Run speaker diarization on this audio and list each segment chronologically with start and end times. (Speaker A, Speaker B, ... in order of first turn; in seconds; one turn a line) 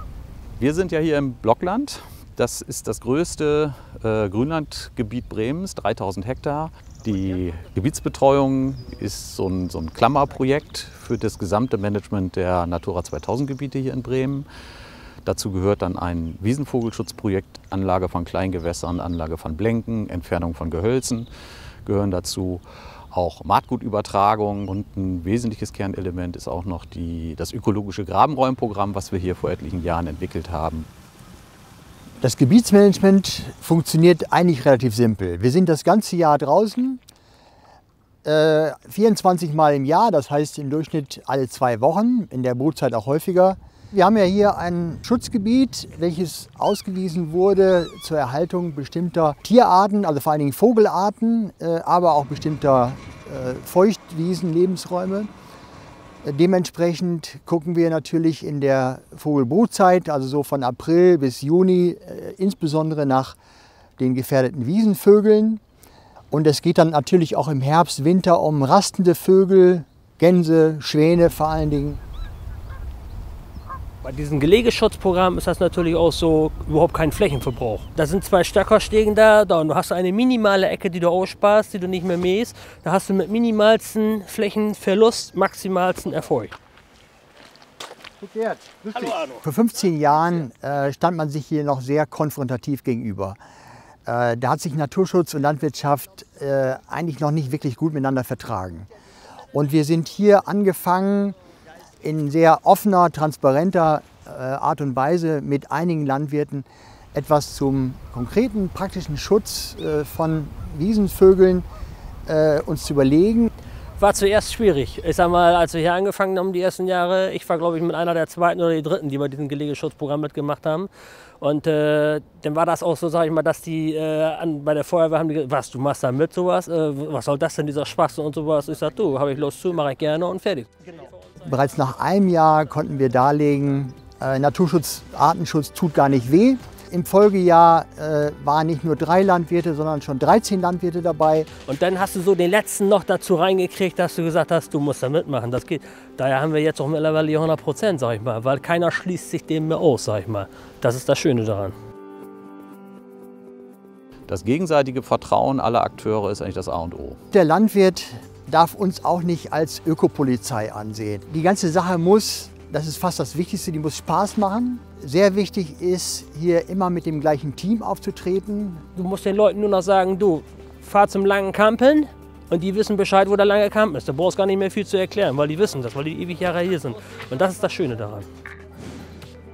Speaker A: 0.6-14.5
Speaker A: 15.2-21.3
Speaker A: 21.9-30.9
Speaker B: 32.2-37.0
Speaker B: 38.2-55.3
Speaker B: 56.2-63.4
Speaker B: 64.0-65.6
Speaker B: 66.3-72.0
Speaker C: 74.0-86.5
Speaker B: 88.2-93.4
Speaker B: 94.1-98.9
Speaker B: 99.5-101.4
Speaker B: 102.0-111.7
Speaker B: 112.3-113.5
Speaker C: 114.0-131.0
Speaker B: 131.4-141.5
Speaker C: 141.7-151.7
Speaker A: 154.3-157.2
Speaker B: 157.3-168.8
Speaker C: 168.9-178.3